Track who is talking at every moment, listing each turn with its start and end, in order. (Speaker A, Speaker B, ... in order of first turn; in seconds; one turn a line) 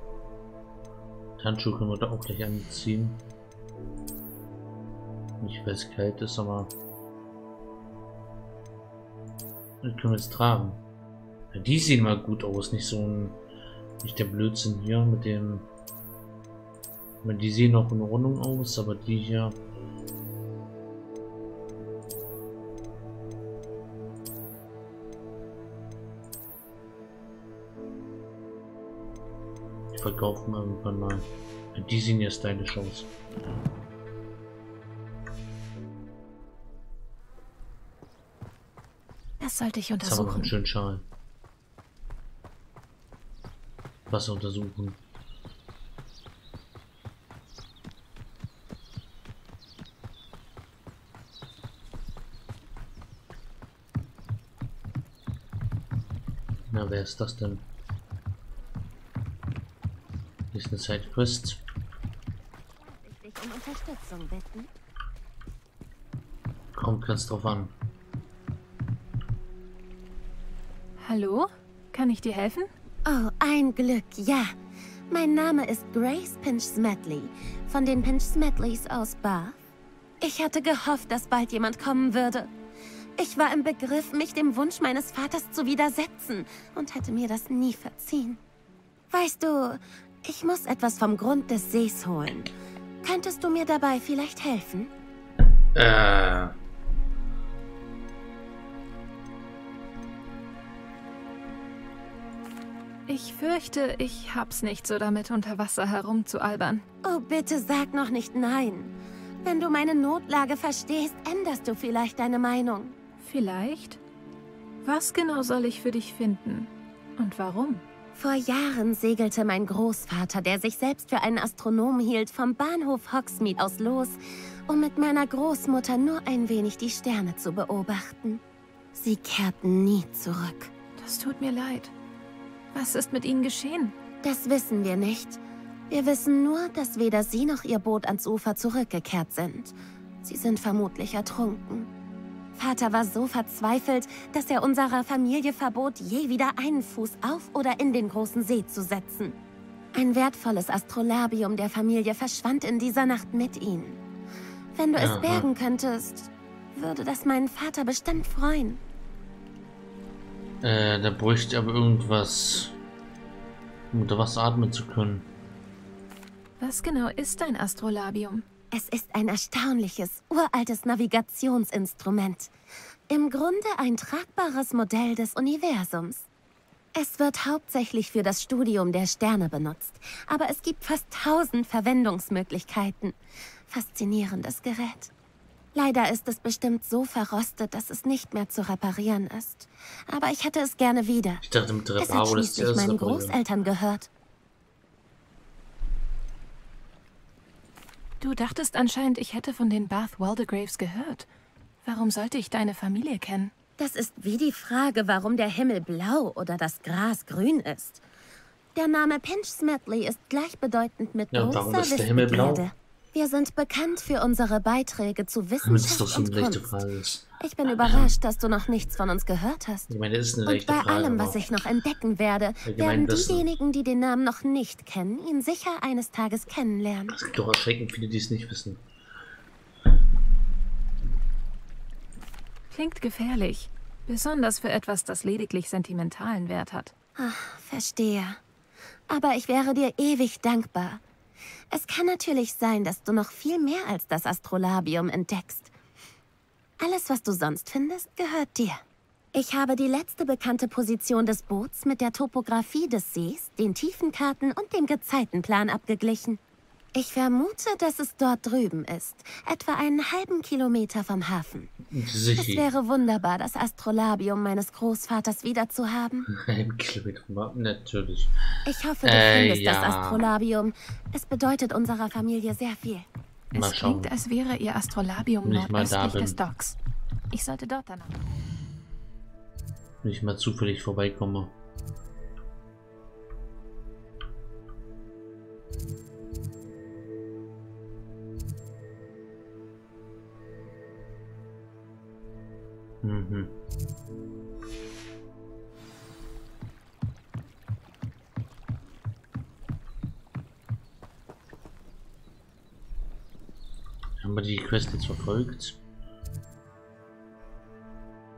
Speaker A: 1.4-3.2
Speaker A: 5.4-6.7
Speaker A: 9.8-10.8
Speaker A: 11.5-13.4
Speaker A: 14.0-15.7
Speaker A: 17.2-19.6
Speaker A: 29.9-33.1
Speaker B: 39.4-40.5
Speaker A: 40.0-41.0
Speaker A: 44.1-45.0
Speaker A: 56.7-57.6
Speaker A: 60.5-61.6
Speaker C: 62.8-64.7
Speaker A: 66.7-67.7
Speaker B: 71.0-72.7
Speaker C: 73.0-74.5
Speaker C: 75.1-79.6
Speaker C: 80.2-82.5
Speaker C: 83.2-88.4
Speaker C: 89.1-92.5
Speaker C: 93.0-94.9
Speaker A: 95.7-96.5
Speaker B: 103.1-106.8
Speaker C: 107.0-112.9
Speaker B: 113.2-114.0
Speaker B: 114.8-117.8
Speaker C: 118.1-128.4
Speaker C: 128.9-130.7
Speaker B: 131.0-131.9
Speaker B: 132.7-133.9
Speaker C: 134.2-141.9
Speaker C: 142.6-149.3
Speaker C: 149.9-154.0
Speaker C: 154.7-158.8
Speaker A: 154.9-155.5
Speaker A: 160.6-162.7
Speaker A: 163.9-165.2
Speaker B: 166.6-168.4
Speaker C: 168.7-172.5
Speaker C: 173.1-176.3
Speaker C: 176.9-183.2
Speaker C: 183.7-185.1
Speaker C: 185.7-191.4
Speaker A: 191.4-193.4
Speaker C: 192.0-194.1
Speaker B: 198.2-201.3
Speaker B: 201.8-203.5
Speaker C: 203.8-208.0
Speaker C: 208.7-216.8
Speaker A: 211.3-212.7
Speaker A: 215.6-218.1
Speaker C: 217.4-219.9
Speaker A: 219.9-221.4
Speaker C: 220.4-227.1
Speaker A: 222.6-223.5
Speaker A: 227.1-228.8
Speaker B: 232.7-236.9
Speaker C: 237.2-238.4
Speaker C: 239.1-241.0
Speaker C: 241.7-245.7
Speaker C: 246.8-248.8
Speaker C: 249.3-256.4
Speaker C: 256.9-261.7
Speaker A: 261.9-262.7
Speaker C: 262.4-266.2
Speaker A: 266.2-268.3
Speaker C: 268.6-273.1
Speaker A: 269.0-270.3
Speaker B: 273.5-276.8
Speaker A: 273.5-274.1
Speaker A: 275.4-276.4
Speaker B: 277.3-278.1
Speaker A: 280.0-281.5
Speaker A: 293.0-293.5
Speaker A: 304.2-305.8